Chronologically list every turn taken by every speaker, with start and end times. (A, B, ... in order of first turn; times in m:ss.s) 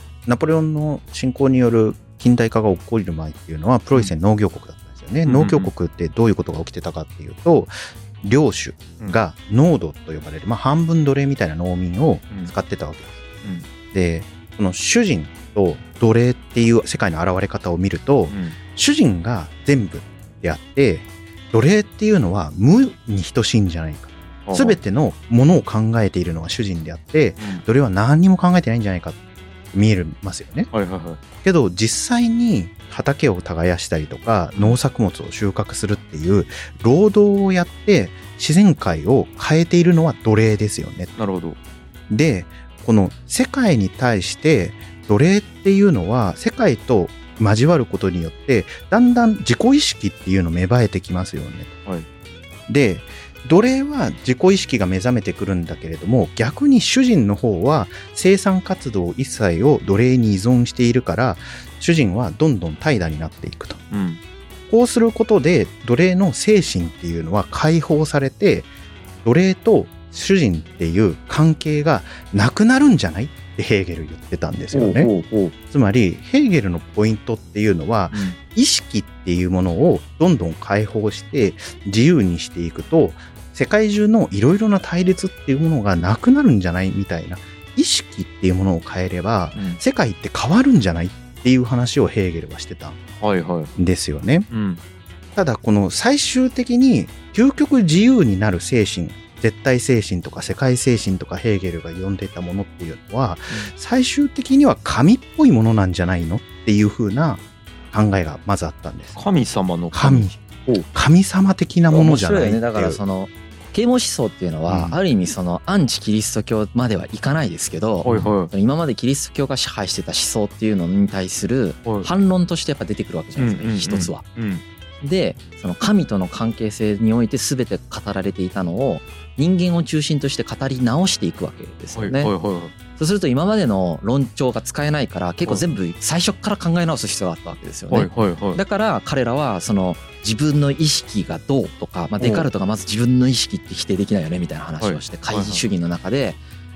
0:00.2-0:29.2 A
0:05.2-0:05.7 B
0:18.3-0:18.6 B
0:24.5-0:24.8 B
0:29.7-0:30.7 A
0:30.7-0:31.2 B
0:31.4-0:41.1 A
0:41.2-0:41.6 B
0:42.1-0:51.8 A
0:52.7-1:03.8 A
1:03.9-1:04.2 B
1:04.7-1:08.7 A
1:09.2-1:15.1 A
1:14.7-1:15.5 B
1:15.7-1:33.0 A
1:18.1-1:18.4 B
1:29.5-1:29.8 B
1:33.2-1:33.7 B
1:33.8-1:34.5 A
1:34.5-1:34.8 B
1:35.4-1:49.2 A
1:49.2-1:50.3 B
1:49.9-1:53.0 A
1:51.9-2:04.2 C
1:54.7-1:55.0 B
1:58.0-1:58.5 B
2:03.4-2:04.6 B
2:05.0-2:12.3 C
2:12.0-2:12.7 B
2:13.0-2:26.4 C
2:17.9-2:18.6 B
2:22.2-2:22.5 B
2:24.8-2:25.6 B